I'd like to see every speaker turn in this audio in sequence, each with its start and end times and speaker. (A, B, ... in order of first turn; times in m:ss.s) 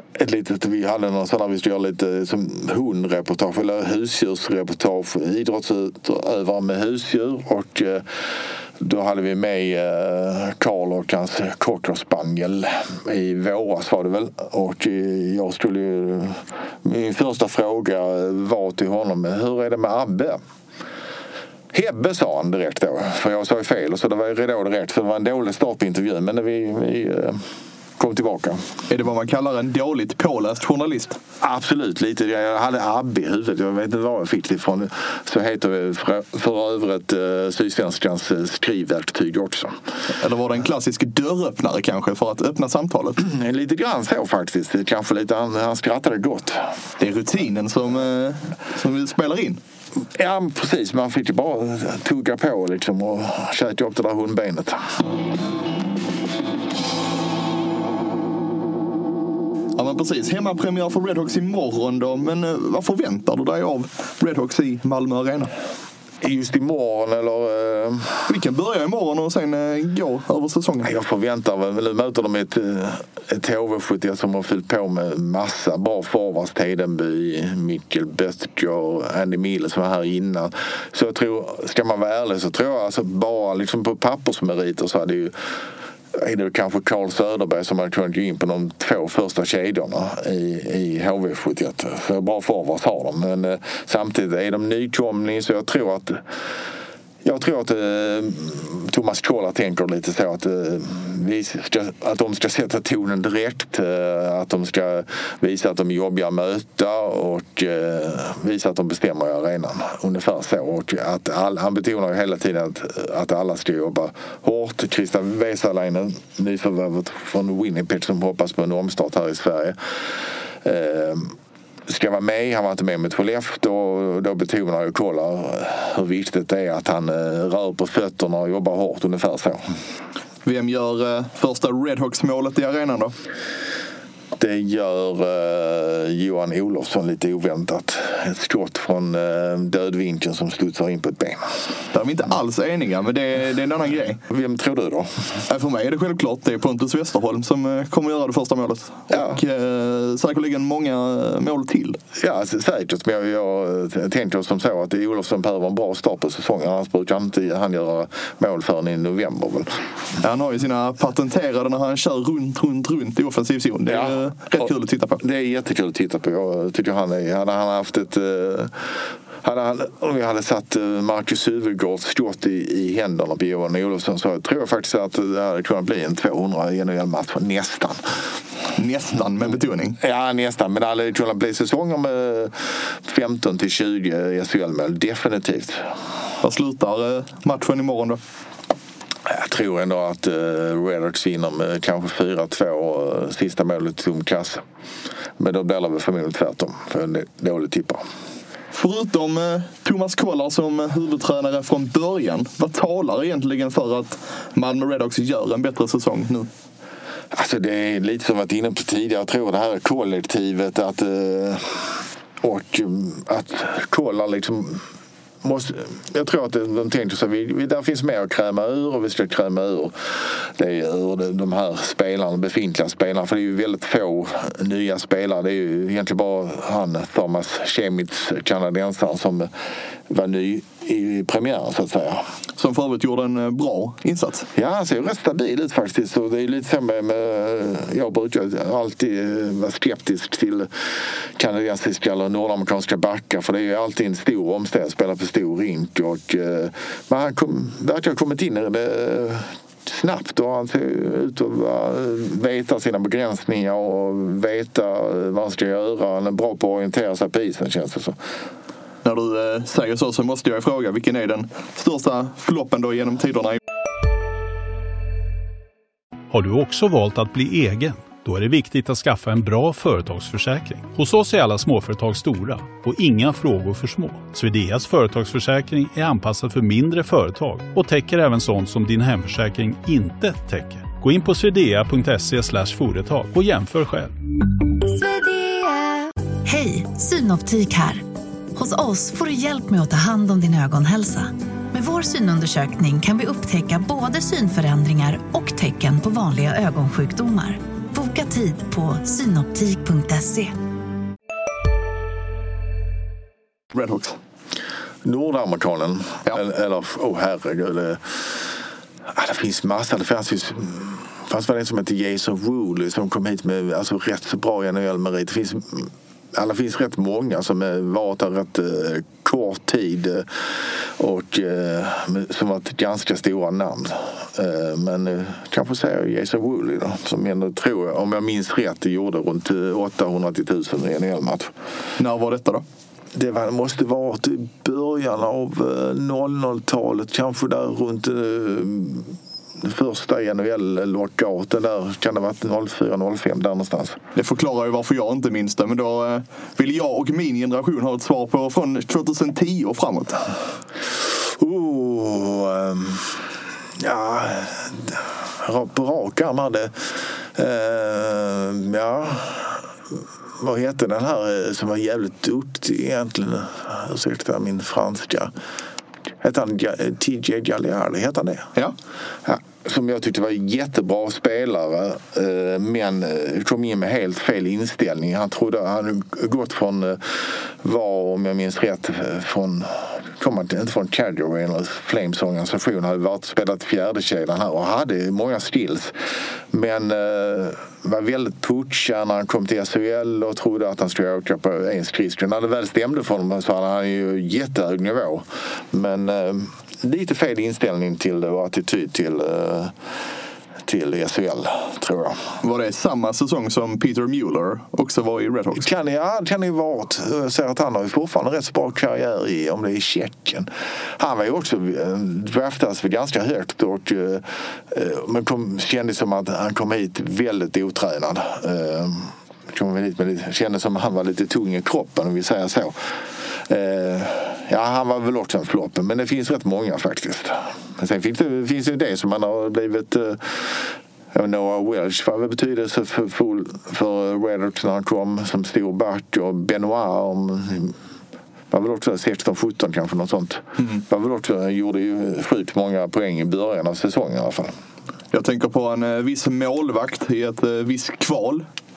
0:00.1-0:08.1 A
0:08.8-0:20.4 A
0:21.7-0:27.4 A
0:28.0-0:28.7 A
0:28.9-0:31.2 B
0:31.4-0:39.8 A
0:40.2-0:43.2 B
0:43.2-0:46.7 A
0:47.0-0:49.6 B
0:50.1-0:54.9 A
0:59.8-1:05.5 B
1:06.2-1:08.3 A
1:08.3-1:10.9 B
1:10.8-1:25.3 A
1:26.1-1:36.2 A
1:37.2-1:59.8 A
2:00.6-2:01.3 A
2:01.9-2:09.6 A
2:10.4-2:13.1 B
2:14.3-2:21.4 A
2:21.9-2:24.2 B
2:24.3-2:25.1 A
2:25.5-2:32.0 B
2:29.1-2:29.4 A
2:32.1-2:39.8 A
2:40.2-2:45.2 B
2:43.9-2:44.6 A
2:45.2-2:48.8 A
2:49.4-2:58.0 A
2:58.8-3:00.0 B
3:00.0-3:05.8 A
3:06.4-3:08.2 B
3:09.3-3:14.6 A
3:15.4-3:18.0 A
3:18.7-3:26.5 B
3:27.3-3:34.8 A
3:35.4-3:49.5 A
3:50.1-3:52.2 A
3:52.6-3:54.5 B
3:54.5-4:00.7 A
4:01.4-4:18.2 A
4:19.0-4:23.6 B
4:26.3-4:44.1 C
4:46.4-4:48.0 D
4:48.5-5:00.6 D
5:03.7-5:04.2 B
5:05.0-5:08.2 A
5:09.1-5:20.3 A
5:21.0-5:31.5 A
5:32.0-5:32.6 B
5:33.1-5:44.0 A
5:44.1-5:50.2 B
5:51.2-5:53.2 A
5:53.8-5:59.6 A
6:00.4-6:05.3 A
6:06.2-6:08.5 A
6:09.2-6:25.9 A
6:26.5-6:39.7 A
6:40.6-6:42.3 A
6:42.4-6:45.7 B
6:45.6-7:02.8 A
7:03.4-7:17.8 A
7:18.5-7:24.5 A
7:25.1-7:28.5 B